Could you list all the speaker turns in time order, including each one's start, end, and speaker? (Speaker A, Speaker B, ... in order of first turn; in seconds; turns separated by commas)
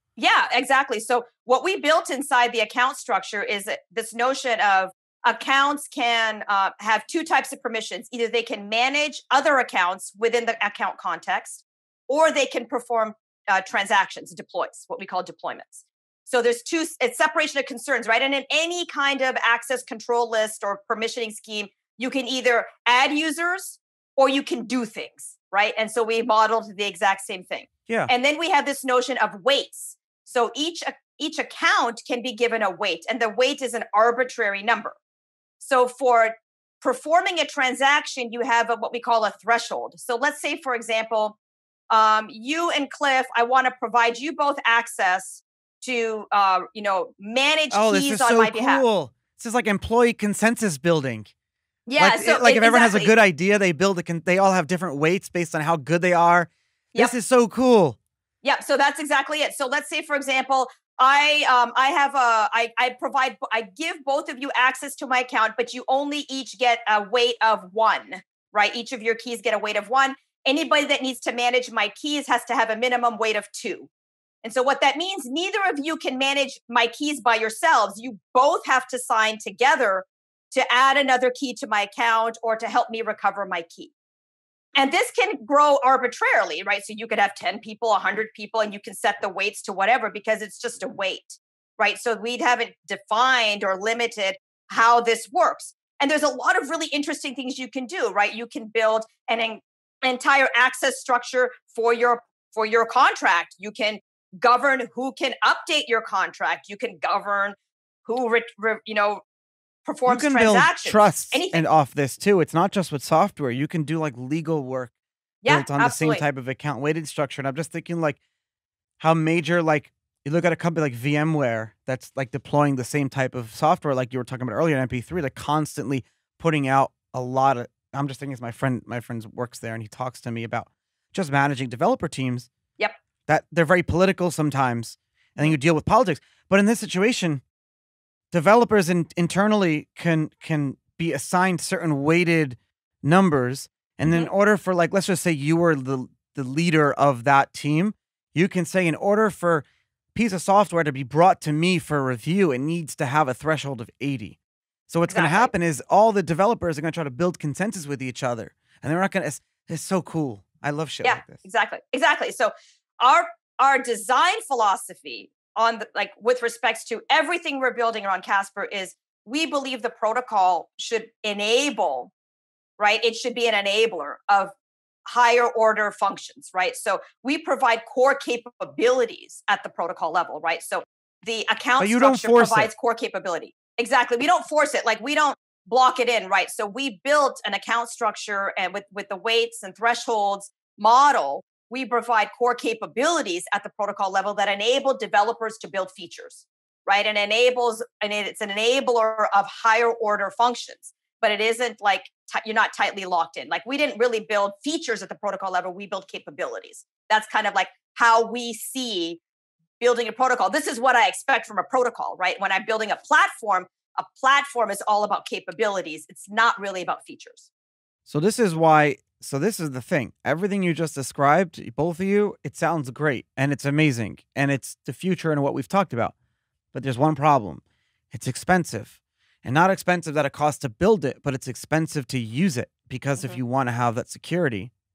Speaker A: 0.2-35.0, Speaker A: 35.6-41.4, Speaker A: 41.9-48.8, Speaker B: 47.7-51.3, Speaker A: 51.9-53.1, Speaker B: 52.0-58.0, Speaker A: 58.4-73.9, Speaker A: 74.4-83.9, Speaker A: 84.8-109.2, Speaker A: 109.8-111.6, Speaker B: 110.0-114.9, Speaker A: 115.4-116.2, Speaker B: 115.5-118.2, Speaker B: 119.0-132.5, Speaker B: 133.3-137.4, Speaker B: 138.3-154.4, Speaker B: 154.9-161.4, Speaker A: 155.1-155.5, Speaker A: 161.0-172.1, Speaker A: 172.8-174.5, Speaker A: 175.1-209.2, Speaker B: 181.8-182.7, Speaker A: 209.8-217.5, Speaker B: 218.1-226.1, Speaker B: 226.7-234.7